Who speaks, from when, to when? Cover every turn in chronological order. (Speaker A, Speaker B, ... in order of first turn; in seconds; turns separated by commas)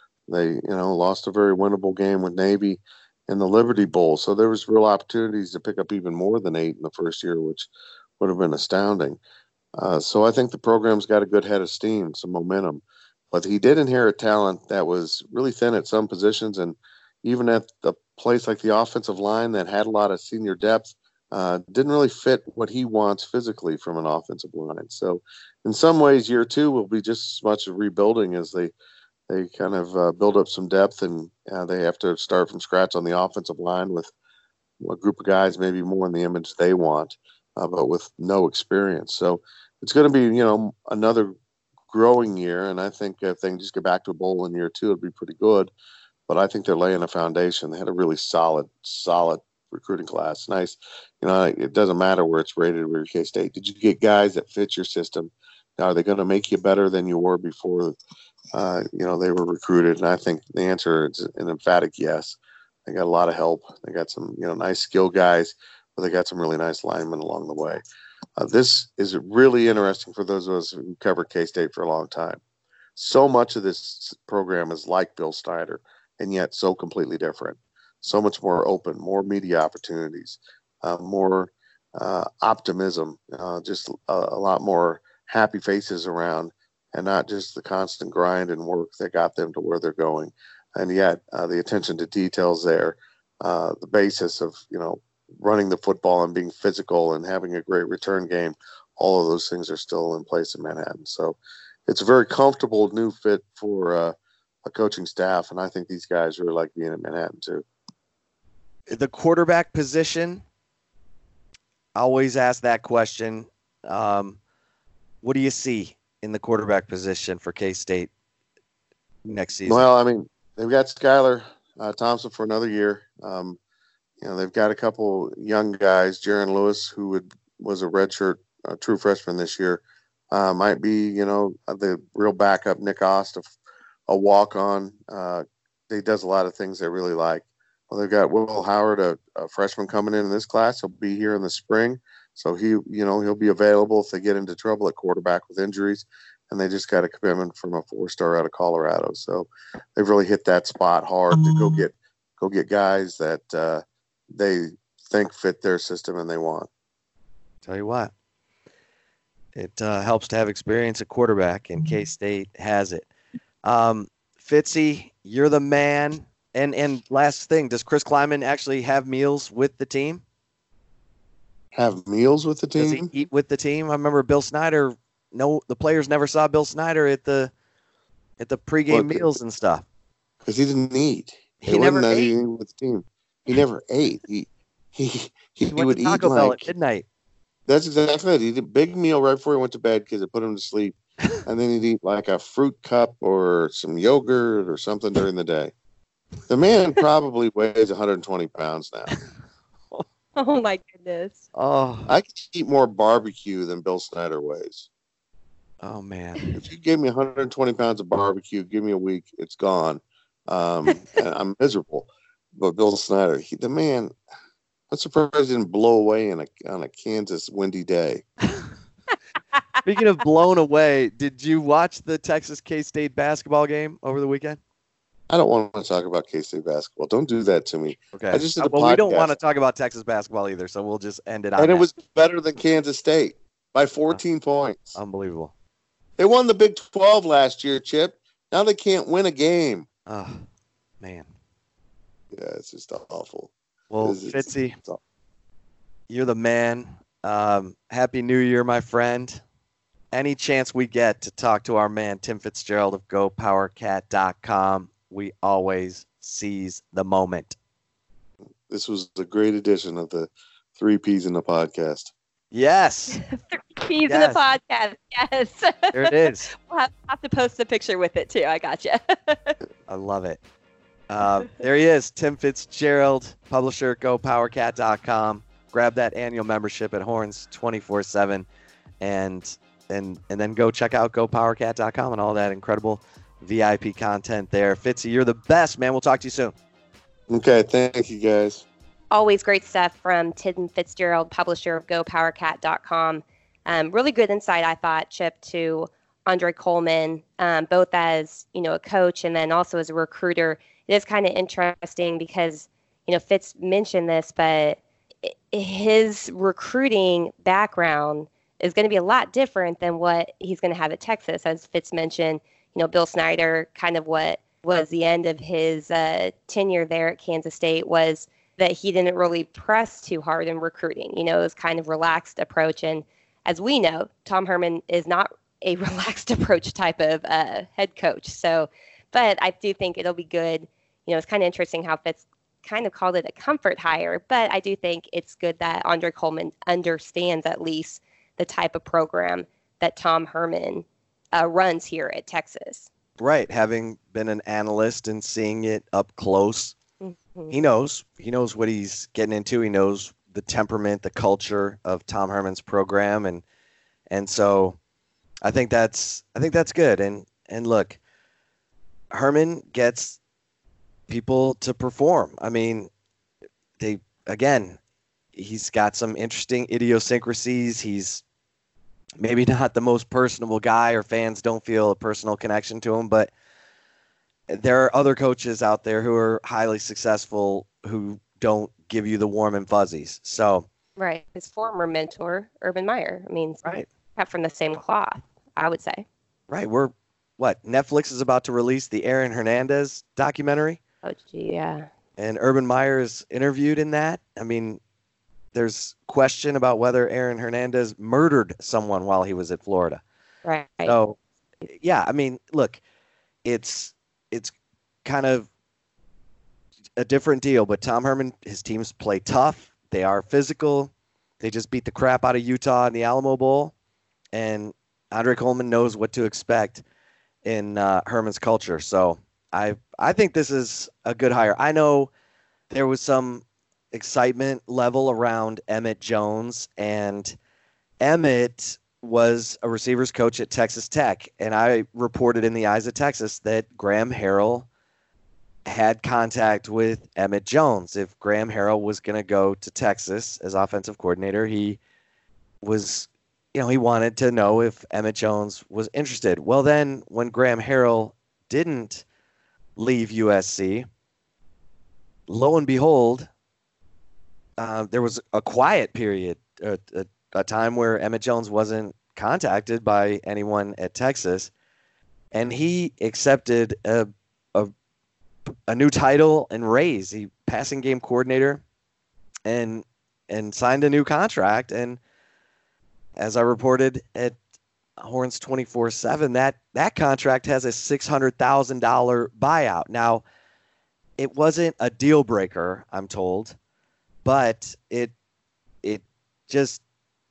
Speaker A: 0.3-9.2, Speaker A: 9.8-28.7, Speaker A: 29.3-34.1, Speaker A: 34.8-41.4, Speaker A: 41.9-45.7, Speaker A: 46.3-58.0, Speaker A: 58.5-67.8, Speaker A: 68.4-72.4, Speaker A: 73.0-107.7, Speaker B: 108.9-110.5, Speaker B: 112.0-114.4, Speaker B: 115.2-118.1, Speaker B: 119.3-119.8, Speaker A: 119.7-123.6, Speaker A: 124.2-133.5, Speaker A: 134.1-156.7, Speaker B: 157.7-158.1, Speaker B: 159.6-163.1, Speaker B: 163.6-170.2, Speaker A: 171.7-173.1, Speaker B: 172.8-177.5, Speaker B: 178.4-179.8, Speaker A: 178.9-179.3, Speaker A: 180.4-186.7, Speaker B: 181.6-182.3, Speaker B: 185.8-187.1, Speaker A: 187.7-195.7, Speaker A: 196.5-199.1, Speaker C: 200.4-201.4, Speaker B: 201.6-202.1, Speaker A: 202.1-204.9, Speaker B: 205.8-206.4, Speaker A: 206.6-214.1, Speaker A: 214.9-218.2, Speaker B: 219.8-224.6, Speaker A: 225.3-229.3, Speaker B: 228.1-231.9, Speaker A: 231.6-235.0, Speaker B: 234.9-235.5, Speaker A: 236.2-239.9, Speaker B: 240.1-240.4, Speaker B: 241.0-241.3, Speaker A: 242.3-243.5, Speaker B: 243.9-244.8, Speaker A: 244.0-245.0, Speaker B: 246.1-249.4, Speaker B: 250.1-257.6, Speaker A: 258.7-262.1, Speaker B: 262.5-263.2, Speaker C: 263.2-269.6, Speaker B: 264.1-264.4, Speaker B: 265.9-266.5, Speaker B: 269.9-270.4, Speaker B: 271.1-278.5, Speaker B: 279.0-286.6, Speaker A: 287.3-288.7, Speaker C: 289.1-342.9, Speaker B: 343.2-346.8, Speaker C: 347.0-347.6, Speaker B: 347.5-353.4, Speaker B: 354.1-354.8, Speaker B: 355.4-358.0, Speaker B: 359.1-360.2, Speaker B: 361.1-362.9, Speaker B: 363.8-364.8, Speaker B: 365.4-368.2, Speaker B: 369.2-373.3, Speaker B: 374.5-380.7, Speaker C: 381.0-386.1, Speaker B: 386.5-390.8, Speaker C: 391.0-391.9, Speaker B: 392.2-394.8, Speaker B: 395.5-400.0, Speaker C: 400.4-401.0, Speaker B: 400.9-402.8, Speaker B: 403.4-404.5, Speaker B: 405.1-405.5, Speaker B: 407.0-413.7, Speaker B: 414.3-416.8, Speaker B: 417.4-422.1, Speaker B: 422.7-427.4, Speaker B: 428.0-434.7, Speaker B: 435.7-441.8, Speaker B: 442.6-449.1, Speaker B: 449.8-450.9, Speaker B: 452.3-453.3, Speaker B: 454.6-461.5, Speaker B: 462.3-464.7, Speaker B: 465.5-468.6, Speaker B: 469.4-472.0, Speaker B: 473.2-474.4, Speaker B: 475.0-480.2, Speaker B: 481.2-483.6, Speaker B: 484.2-485.1, Speaker B: 485.8-486.8